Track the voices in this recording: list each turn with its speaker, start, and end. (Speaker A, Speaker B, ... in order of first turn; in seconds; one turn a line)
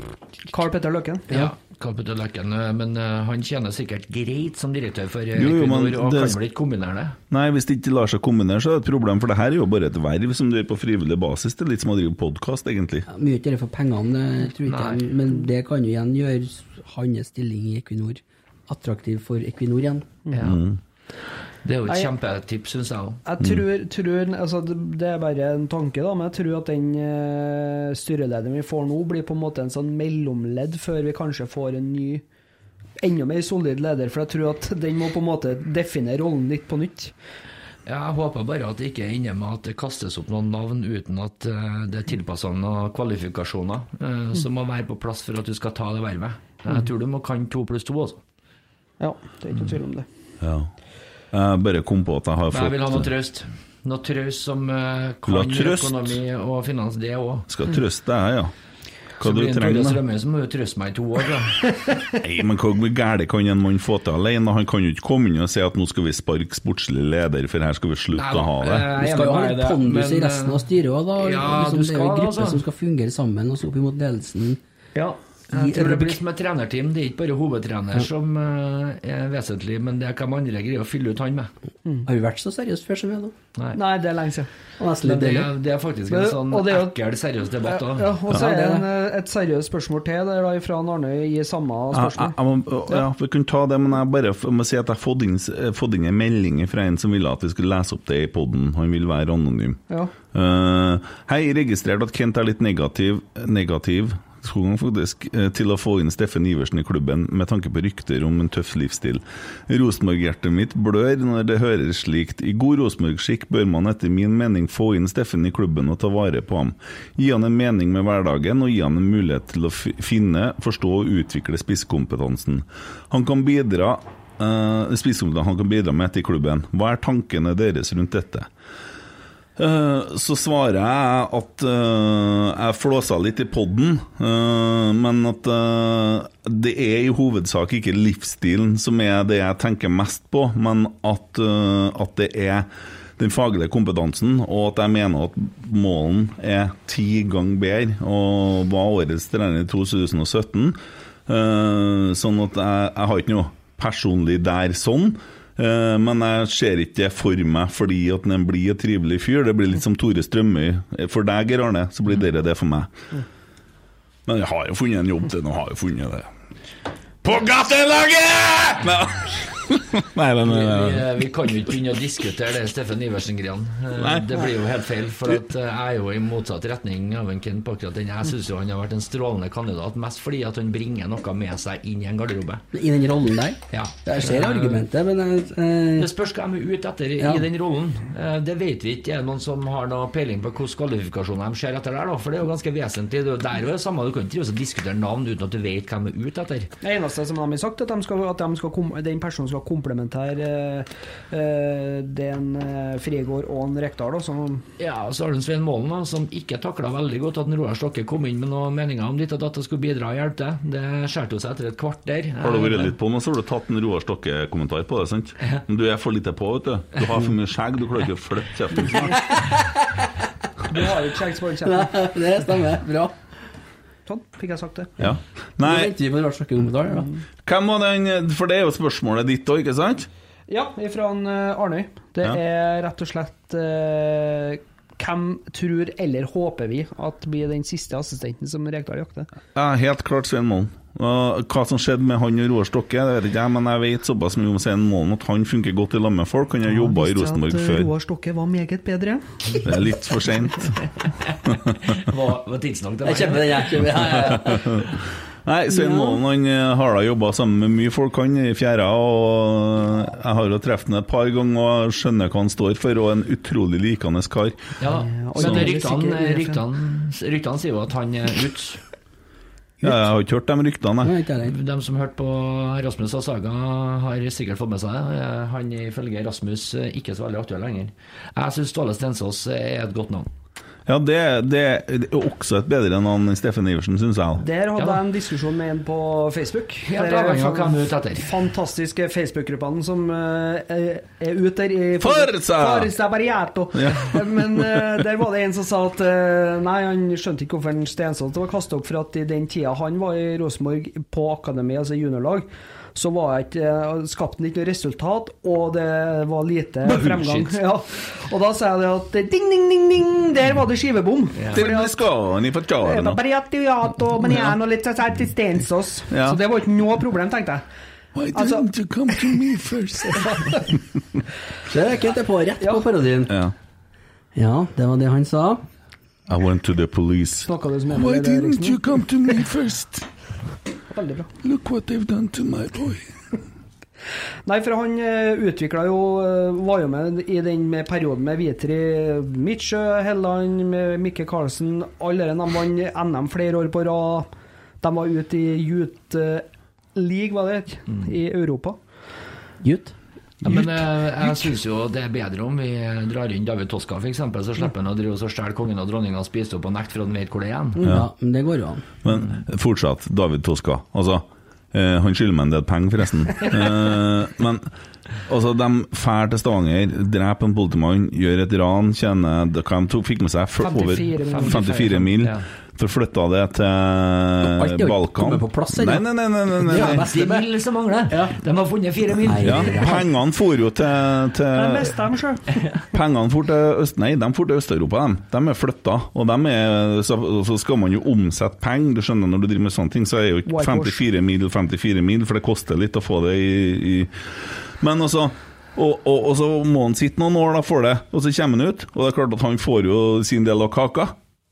Speaker A: 0.5-1.3
Speaker B: 1.3-7.2
Speaker C: 5.3-6.4
Speaker C: 7.3-13.1
Speaker D: 13.1-20.1
Speaker B: 14.7-15.0
Speaker A: 20.2-20.6
Speaker B: 20.3-20.6
Speaker C: 20.4-20.8
Speaker B: 21.6-23.2
Speaker A: 23.2-32.2
Speaker A: 33.0-37.1
Speaker B: 37.9-48.2
Speaker A: 49.0-50.0
Speaker C: 50.4-50.7
Speaker C: 51.3-53.1
Speaker B: 52.5-57.5
Speaker C: 55.2-56.1
Speaker C: 57.5-58.5
Speaker C: 59.2-60.0
Speaker B: 59.2-61.7
Speaker C: 62.2-68.9
Speaker B: 68.1-70.6
Speaker D: 69.0-74.6
Speaker B: 71.2-72.6
Speaker D: 75.5-76.2
Speaker B: 75.5-81.5
Speaker D: 82.0-83.3
Speaker A: 83.7-84.5
Speaker D: 84.8-85.5
Speaker B: 85.0-88.2
Speaker A: 86.1-86.9
Speaker A: 87.6-92.3
Speaker D: 88.3-88.8
Speaker C: 91.9-99.8
Speaker C: 100.3-128.5
Speaker C: 129.6-142.7
Speaker C: 143.2-162.9
Speaker C: 164.3-166.3
Speaker C: 167.2-171.1
Speaker B: 170.5-182.6
Speaker C: 173.9-174.4
Speaker D: 182.7-186.1
Speaker B: 183.7-184.8
Speaker B: 186.0-196.7
Speaker D: 187.2-187.4
Speaker A: 196.8-204.6
Speaker B: 204.8-212.9
Speaker C: 212.4-219.2
Speaker D: 219.3-219.7
Speaker A: 220.7-221.9
Speaker D: 221.6-223.1
Speaker A: 224.1-224.9
Speaker C: 225.0-225.9
Speaker D: 225.6-227.1
Speaker C: 227.4-230.1
Speaker A: 230.5-239.3
Speaker C: 239.5-247.9
Speaker A: 246.6-249.7
Speaker C: 249.6-250.8
Speaker B: 251.3-254.2
Speaker D: 253.0-254.8
Speaker C: 254.2-254.9
Speaker C: 255.4-264.6
Speaker D: 255.7-256.2
Speaker B: 264.8-268.8
Speaker A: 264.9-266.6
Speaker C: 265.4-265.7
Speaker C: 269.8-271.1
Speaker D: 271.0-271.5
Speaker B: 271.4-280.3
Speaker C: 280.9-284.4
Speaker A: 284.4-312.0
Speaker B: 284.8-285.0
Speaker B: 286.9-288.3
Speaker C: 292.0-292.9
Speaker C: 293.7-295.0
Speaker B: 306.8-307.6
Speaker B: 311.4-311.7
Speaker C: 311.5-313.2
Speaker A: 312.8-317.6
Speaker C: 314.2-314.5
Speaker C: 316.1-316.4
Speaker C: 318.1-320.7
Speaker A: 318.3-319.4
Speaker A: 320.1-320.6
Speaker D: 321.7-323.3
Speaker C: 323.3-323.5
Speaker D: 324.3-325.6
Speaker C: 326.3-330.1
Speaker A: 327.4-329.0
Speaker A: 330.9-331.3
Speaker C: 331.4-333.1
Speaker A: 334.4-344.3
Speaker A: 344.8-348.8
Speaker D: 349.6-349.9
Speaker B: 350.4-357.9
Speaker D: 357.8-358.9
Speaker C: 359.0-364.7
Speaker C: 365.2-377.1
Speaker A: 370.6-372.0
Speaker B: 371.2-372.4
Speaker D: 374.4-377.5
Speaker B: 376.6-380.1
Speaker D: 378.1-378.4
Speaker D: 379.2-380.0
Speaker C: 379.4-382.0
Speaker A: 381.5-382.6
Speaker C: 382.9-394.1
Speaker A: 390.5-391.0
Speaker C: 394.8-401.1